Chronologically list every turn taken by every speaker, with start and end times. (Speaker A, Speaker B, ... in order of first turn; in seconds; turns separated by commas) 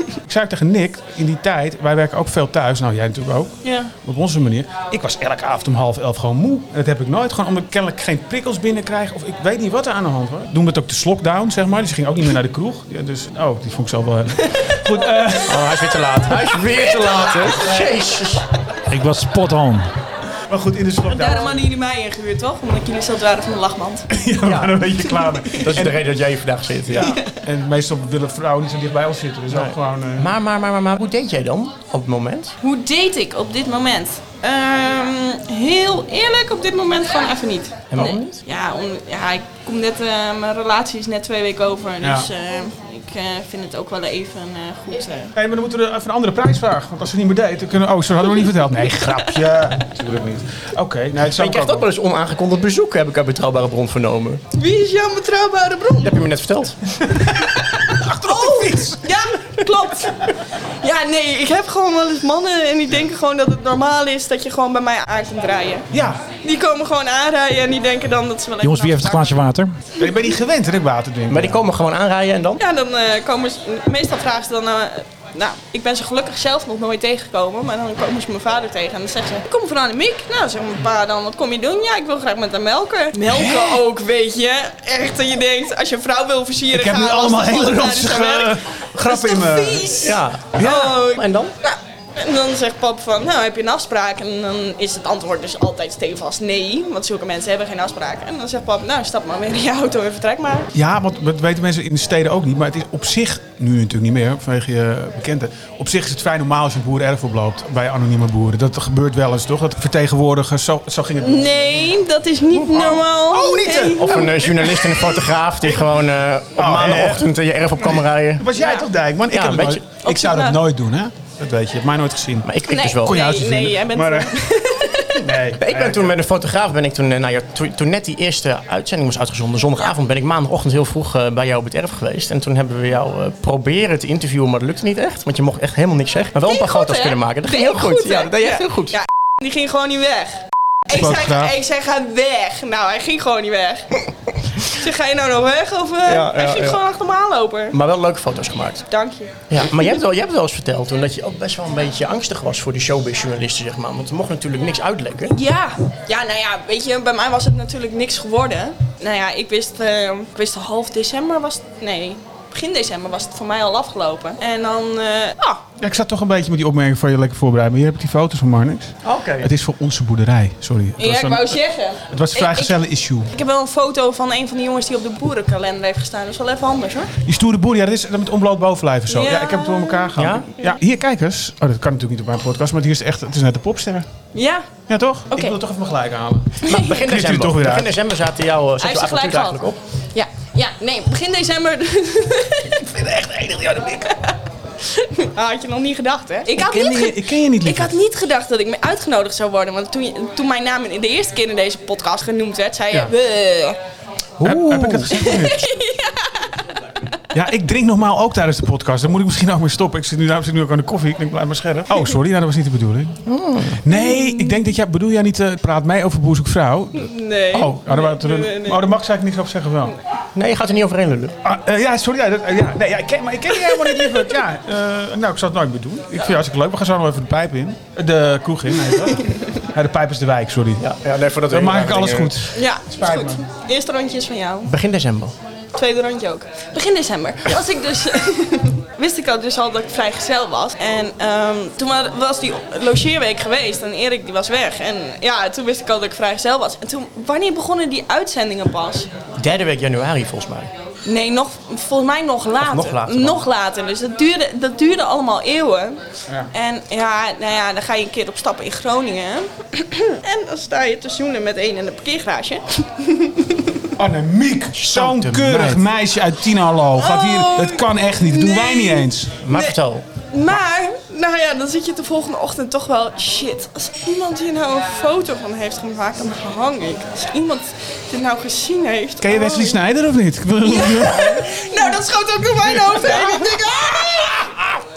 Speaker A: 0.3-16.0, Speaker B: 3.6-3.9, Speaker B: 14.4-14.8, Speaker C: 15.5-18.4, Speaker A: 16.7-17.9, Speaker B: 17.0-17.3, Speaker D: 18.9-19.9, Speaker A: 20.5-21.6, Speaker B: 21.1-24.1, Speaker A: 24.1-26.0, Speaker C: 24.4-24.8, Speaker B: 25.0-25.6, Speaker C: 25.6-27.2, Speaker A: 26.9-30.3, Speaker B: 27.0-27.4, Speaker C: 29.5-32.5, Speaker B: 32.6-45.3, Speaker C: 37.9-38.4, Speaker A: 42.0-42.3, Speaker A: 45.3-51.9, Speaker B: 49.0-49.5, Speaker C: 51.2-54.4, Speaker B: 54.5-56.3, Speaker C: 56.0-57.3, Speaker B: 57.2-65.9, Speaker A: 57.9-59.2, Speaker A: 65.9-66.2, Speaker B: 66.4-69.4, Speaker D: 68.6-69.8, Speaker A: 70.0-71.6, Speaker C: 71.3-72.6, Speaker B: 72.6-100.7, Speaker A: 83.2-83.8, Speaker A: 86.7-89.9, Speaker C: 89.9-91.5, Speaker A: 90.5-91.0, Speaker A: 100.7-112.0, Speaker B: 111.2-115.0, Speaker A: 112.6-115.1, Speaker C: 113.9-118.5, Speaker A: 115.6-115.9, Speaker A: 116.5-122.5, Speaker B: 118.5-118.8, Speaker C: 119.3-119.8, Speaker B: 120.0-120.6, Speaker C: 122.4-123.2, Speaker B: 122.7-125.2, Speaker A: 123.0-124.3, Speaker A: 125.1-126.2, Speaker C: 125.5-139.0, Speaker B: 136.4-144.0, Speaker A: 140.9-141.5, Speaker B: 144.5-147.8, Speaker C: 146.1-146.8, Speaker C: 147.7-148.8, Speaker B: 148.9-149.3, Speaker C: 149.5-155.3, Speaker B: 155.3-165.6, Speaker A: 165.8-173.3, Speaker C: 169.0-169.5, Speaker B: 171.0-172.8, Speaker B: 173.3-177.1, Speaker A: 177.2-184.1, Speaker B: 179.1-180.8, Speaker C: 180.2-180.5, Speaker B: 184.3-184.7, Speaker A: 184.9-187.9, Speaker B: 185.3-185.6, Speaker B: 186.6-187.0, Speaker C: 186.6-189.8, Speaker B: 188.8-189.6, Speaker B: 190.1-192.9, Speaker A: 192.8-194.2, Speaker B: 194.0-203.8, Speaker A: 196.5-197.9, Speaker C: 204.4-205.2, Speaker A: 204.4-205.7, Speaker B: 205.1-206.5, Speaker A: 207.3-213.2, Speaker C: 213.2-213.8, Speaker A: 213.8-219.9, Speaker B: 213.9-214.7, Speaker B: 216.9-218.8, Speaker C: 220.3-221.3, Speaker A: 221.4-230.8, Speaker B: 223.8-224.1, Speaker C: 230.8-232.4, Speaker A: 231.5-233.4, Speaker B: 232.5-234.7, Speaker C: 234.7-235.3, Speaker B: 235.7-249.1, Speaker C: 249.4-250.7, Speaker B: 251.1-256.0, Speaker C: 252.6-253.4, Speaker B: 256.5-263.9, Speaker A: 263.9-269.4, Speaker C: 264.7-265.8, Speaker B: 266.9-269.8, Speaker C: 269.4-270.0, Speaker B: 270.3-279.8, Speaker A: 279.2-281.7, Speaker B: 280.6-284.6, Speaker A: 282.6-283.5